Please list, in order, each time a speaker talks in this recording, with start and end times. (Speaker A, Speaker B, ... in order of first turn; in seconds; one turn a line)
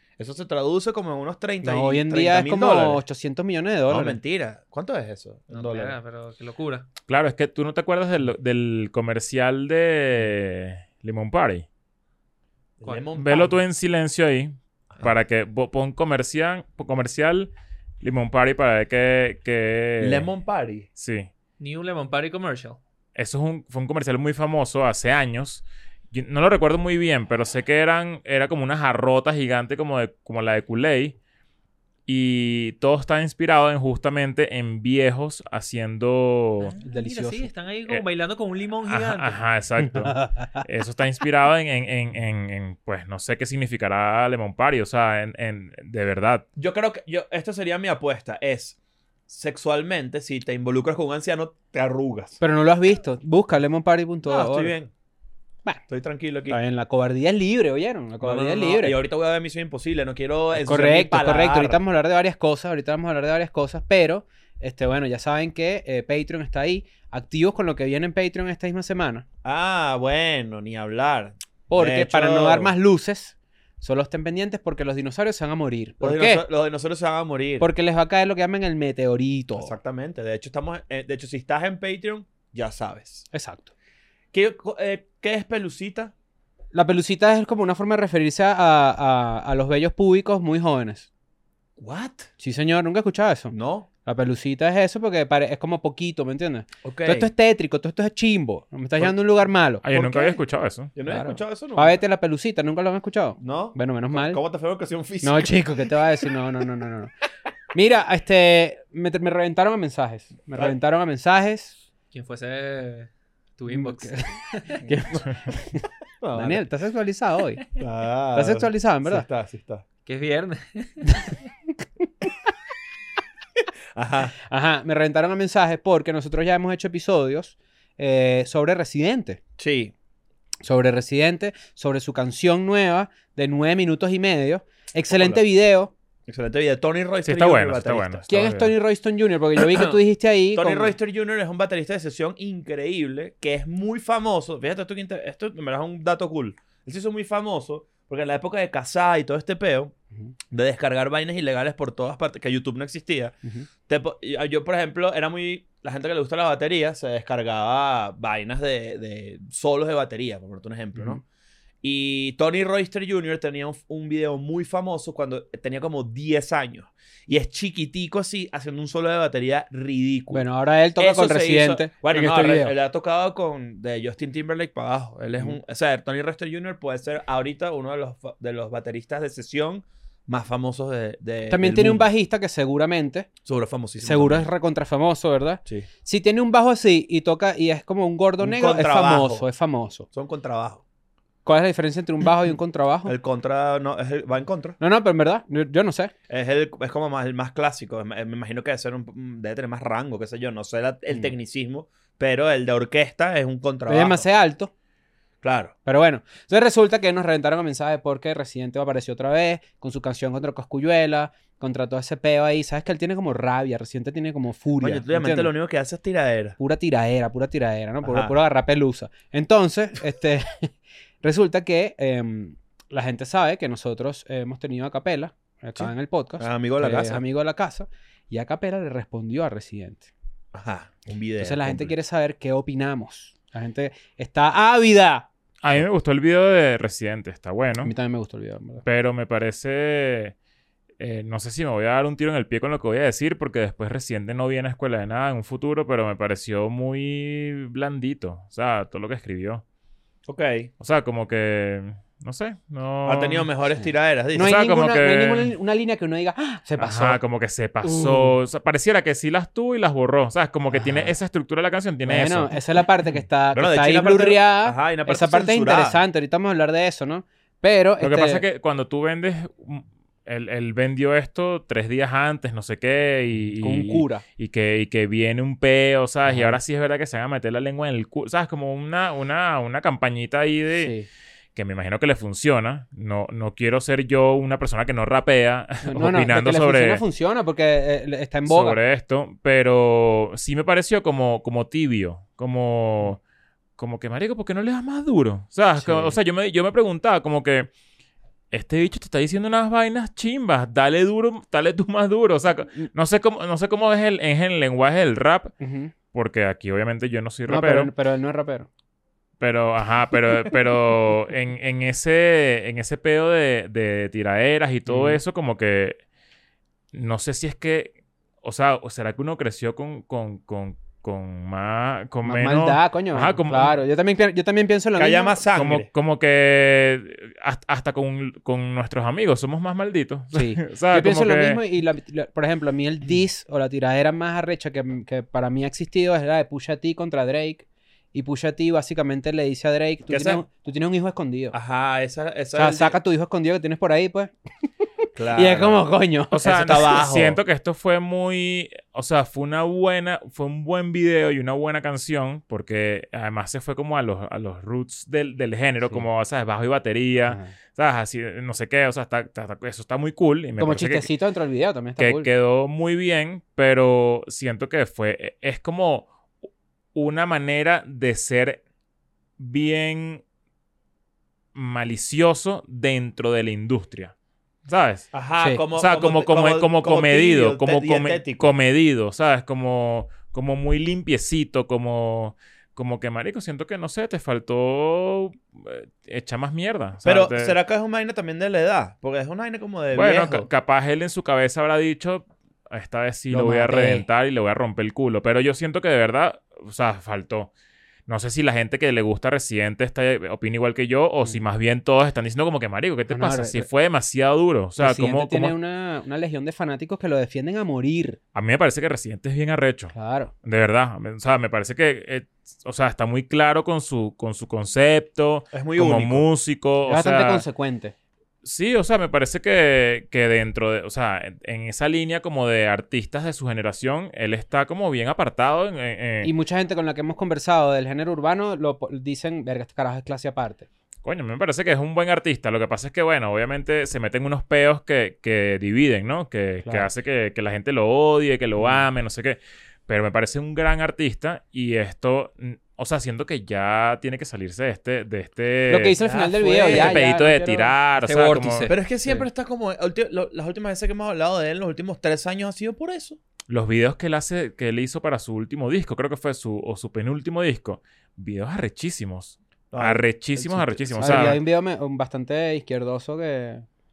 Speaker A: 0.2-3.0
Speaker B: 1.6-4.2
Speaker A: 3.9-6.0
Speaker C: 5.5-6.9
Speaker D: 7.1-11.7
Speaker A: 12.8-13.6
Speaker D: 13.2-20.3
Speaker A: 20.0-20.9
Speaker D: 21.0-21.3
Speaker C: 21.6-22.8
Speaker D: 23.1-31.2
Speaker D: 32.1-36.8
Speaker C: 36.6-39.4
Speaker B: 36.8-37.5
Speaker D: 38.9-46.5
Speaker B: 39.8-40.6
Speaker A: 46.6-48.8
Speaker A: 49.3-52.4
Speaker B: 52.4-54.8
Speaker A: 54.2-54.9
Speaker A: 55.9-56.6
Speaker B: 56.5-59.0
Speaker A: 58.2-61.8
Speaker B: 60.5-69.2
Speaker A: 69.4-72.8
Speaker B: 71.7-76.5
Speaker A: 76.0-77.7
Speaker B: 77.6-79.8
Speaker A: 79.5-83.3
Speaker B: 83.3-83.7
Speaker A: 84.3-86.1
Speaker B: 86.7-91.1
Speaker A: 91.8-92.3
Speaker B: 92.4-100.4
Speaker A: 93.5-93.9
Speaker A: 96.8-97.3
Speaker D: 99.8-100.9
Speaker A: 101.0-102.0
Speaker B: 101.1-104.4
Speaker A: 103.4-105.9
Speaker B: 105.2-107.1
Speaker B: 107.7-111.8
Speaker C: 112.1-114.8
Speaker B: 113.7-117.6
Speaker A: 116.2-116.7
Speaker A: 117.8-119.8
Speaker B: 118.3-119.3
Speaker C: 120.1-121.3
Speaker A: 124.0-124.3
Speaker B: 124.5-129.4
Speaker A: 129.6-129.9
Speaker B: 130.6-135.9
Speaker A: 135.1-135.4
Speaker A: 136.3-138.2
Speaker D: 137.2-138.7
Speaker B: 138.3-140.9
Speaker A: 140.6-149.9
Speaker A: 150.5-153.3
Speaker A: 153.9-161.2
Speaker B: 160.9-161.2
Speaker A: 161.8-170.5
Speaker B: 170.3-172.7
Speaker A: 171.0-182.1
Speaker B: 181.5-183.3
Speaker A: 183.4-184.5
Speaker B: 184.0-190.1
Speaker A: 188.4-189.5
Speaker A: 190.1-190.8
Speaker B: 191.5-193.2
Speaker A: 193.1-194.8
Speaker B: 194.8-196.1
Speaker A: 196.3-204.2
Speaker B: 203.9-204.7
Speaker A: 205.4-205.7
Speaker B: 205.8-215.5
Speaker A: 214.8-216.6
Speaker B: 216.6-230.1
Speaker A: 218.0-218.3
Speaker A: 225.8-227.2
Speaker A: 230.5-231.9
Speaker B: 231.4-235.3
Speaker D: 235.6-237.9
Speaker B: 237.8-238.8
Speaker D: 238.8-240.3
Speaker D: 241.0-249.6
Speaker A: 250.3-250.7
Speaker D: 250.8-253.5
Speaker A: 253.1-254.6
Speaker B: 253.8-257.2
Speaker D: 254.4-255.5
Speaker D: 256.8-262.6
Speaker B: 260.7-261.1
Speaker B: 262.1-268.4
Speaker A: 263.5-266.0
Speaker D: 268.0-280.9
Speaker B: 273.6-274.2
Speaker B: 276.2-276.6
Speaker B: 280.8-281.1
Speaker D: 281.6-287.0
Speaker B: 285.8-288.8
Speaker D: 288.5-293.2
Speaker D: 293.8-297.7
Speaker B: 295.8-296.2
Speaker D: 298.5-305.5
Speaker B: 305.6-305.9
Speaker D: 306.1-307.9
Speaker B: 307.5-308.7
Speaker D: 309.4-316.0
Speaker B: 314.9-315.2
Speaker D: 316.9-323.8
Speaker B: 322.2-325.4
Speaker A: 325.0-325.9
Speaker D: 325.6-331.6
Speaker B: 330.3-341.6
Speaker A: 340.1-340.4
Speaker A: 341.5-343.0
Speaker B: 342.6-344.3
Speaker A: 345.2-345.8
Speaker B: 345.3-346.8
Speaker D: 346.3-361.1
Speaker A: 346.4-347.4
Speaker B: 357.3-357.5
Speaker B: 360.6-362.3
Speaker D: 362.0-366.1
Speaker D: 366.9-368.6
Speaker D: 369.4-370.2
Speaker D: 371.6-374.1
Speaker D: 374.7-375.1
Speaker A: 375.1-378.5
Speaker D: 375.8-387.6
Speaker A: 387.0-390.5
Speaker D: 389.9-397.5
Speaker B: 393.3-394.1
Speaker D: 398.1-405.6
Speaker B: 403.1-403.7
Speaker B: 404.8-408.2
Speaker D: 408.4-417.4
Speaker B: 409.9-410.3
Speaker A: 415.5-416.3
Speaker B: 416.9-417.9
Speaker D: 418.4-426.3
Speaker B: 426.2-430.7
Speaker D: 431.0-446.0
Speaker B: 445.7-447.7
Speaker A: 446.0-447.0
Speaker D: 446.6-448.7
Speaker C: 448.0-448.8
Speaker A: 448.7-453.2
Speaker D: 453.5-461.4
Speaker A: 459.7-461.4
Speaker B: 461.0-463.6